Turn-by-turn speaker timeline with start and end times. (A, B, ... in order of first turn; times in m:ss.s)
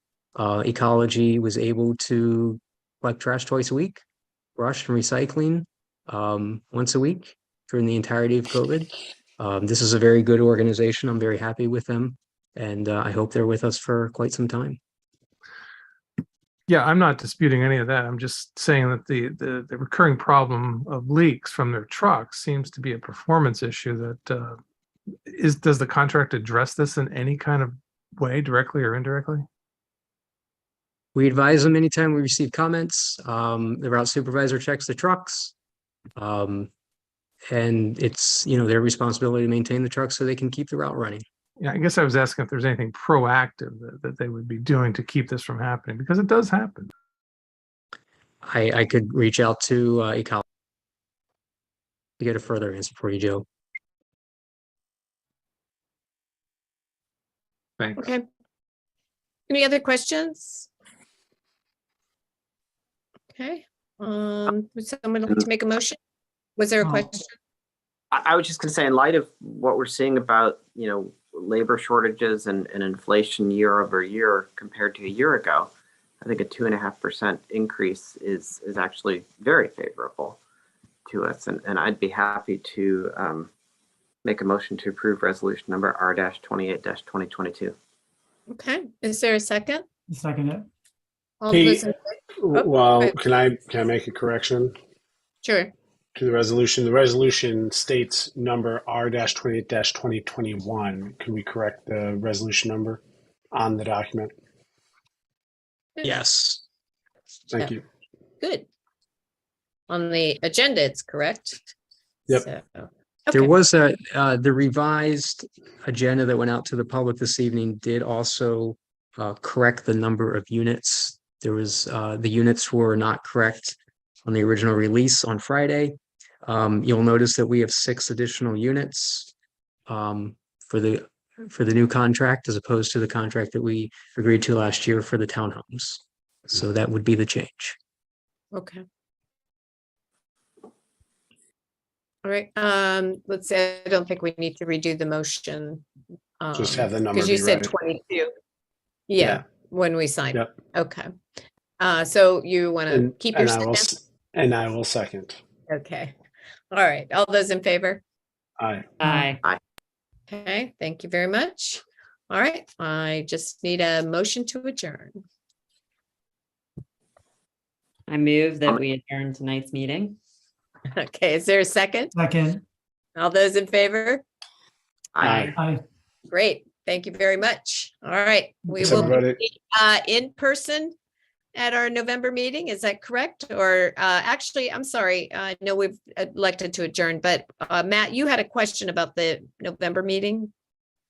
0:00.4-0:04.0 A
0:04.6-0:14.8 A
0:16.7-0:24.6 B
0:25.3-0:29.4 B
0:31.2-0:35.5 A
0:36.2-0:36.7 A
0:37.5-0:41.2 A
0:41.6-0:46.9 B
0:48.4-0:50.4 A
0:52.2-0:53.4 A
0:58.0-0:58.2 C
0:59.5-1:00.7 C
1:03.3-1:06.0 C
1:06.6-1:07.3 C
1:08.1-1:15.7 D
1:16.2-1:20.4 D
1:21.1-1:23.5 D
1:24.2-1:27.8 D
1:28.5-1:29.8 C
1:30.1-1:30.7 E
1:31.4-1:33.2 C
1:31.5-1:31.8 F
1:32.4-1:34.8 F
1:35.4-1:35.7 C
1:36.2-1:44.3 F
1:46.0-1:46.6 A
1:47.5-1:47.8 F
1:48.4-1:48.7 C
1:49.9-1:51.6 C
1:52.3-1:53.5 C
1:53.3-2:09.3 A
2:09.9-2:17.8 A
2:18.5-2:18.8 C
2:22.2-2:25.8 C
2:26.4-2:28.3 C
2:26.6-2:27.7 F
2:29.1-2:31.1 C
2:31.8-2:33.9 C
2:32.9-2:35.4 F
2:35.7-2:36.2 C
2:36.7-2:38.0 C
2:38.6-2:38.9 F
2:39.0-2:39.4 G
2:39.0-2:39.4 E
2:40.3-2:45.2 C
2:48.1-2:50.2 G
2:51.0-2:52.1 C
2:52.2-2:52.6 E
2:53.2-2:54.2 C
2:55.2-2:55.5 D
2:55.2-2:55.8 E
2:56.3-3:00.9 C
2:58.8-2:59.1 E
2:58.8-2:59.4 F
3:01.6-3:10.5 C